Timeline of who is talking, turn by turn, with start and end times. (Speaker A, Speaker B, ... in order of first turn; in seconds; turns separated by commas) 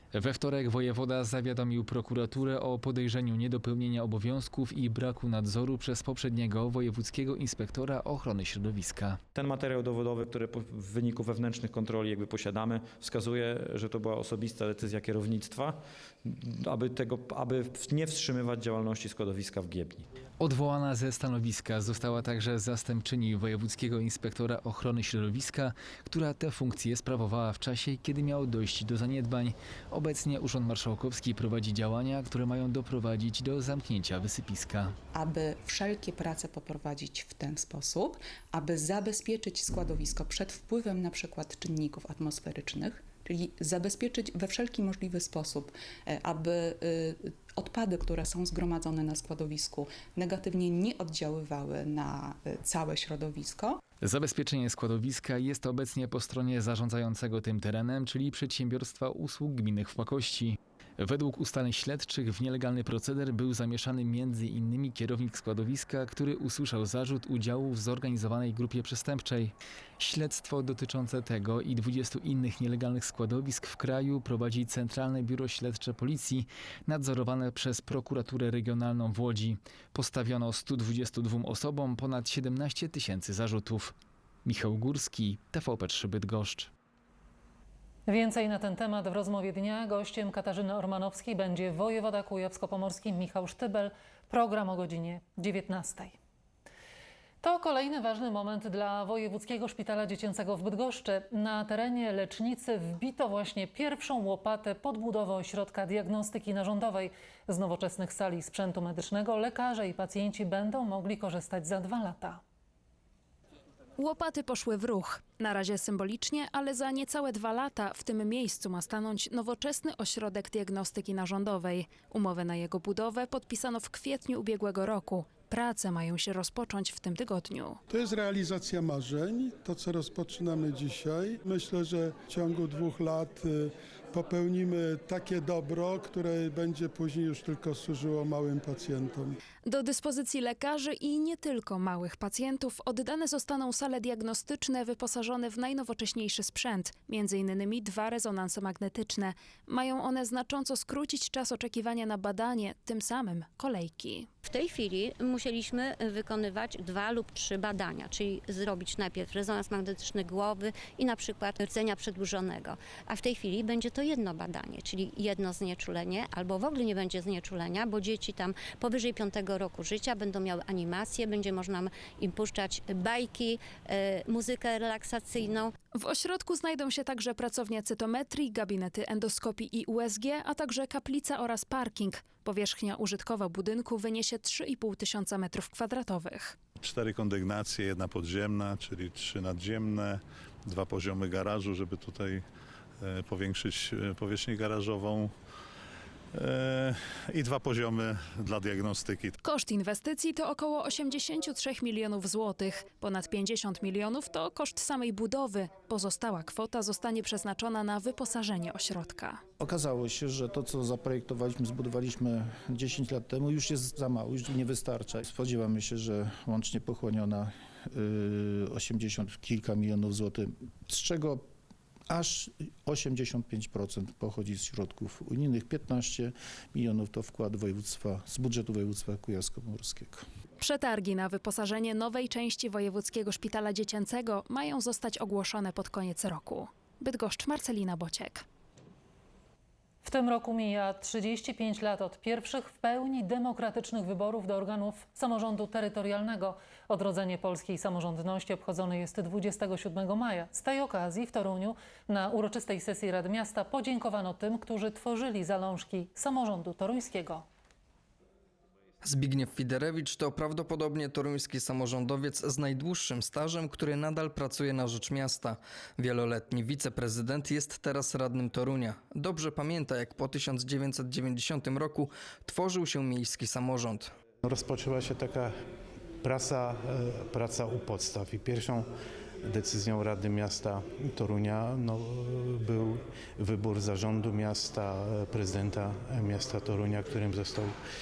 Speaker A: 0.1-9.2, Speaker B: 9.3-20.1, Speaker A: 20.4-34.9, Speaker C: 35.1-53.8, Speaker A: 54.0-86.7, Speaker D: 88.1-96.2, Speaker D: 97.4-112.4, Speaker E: 114.0-127.8, Speaker F: 127.9-139.4, Speaker E: 139.7-154.3, Speaker G: 154.4-175.7, Speaker E: 175.9-186.5, Speaker H: 186.8-192.4, Speaker H: 193.0-195.3, Speaker H: 196.3-199.3, Speaker E: 199.4-209.4, Speaker I: 209.6-221.5, Speaker I: 222.1-230.2, Speaker E: 230.6-238.4, Speaker D: 240.0-257.4, Speaker J: 259.0-274.1, Speaker K: 274.4-275.5, Speaker K: 276.2-278.9, Speaker K: 279.4-287.8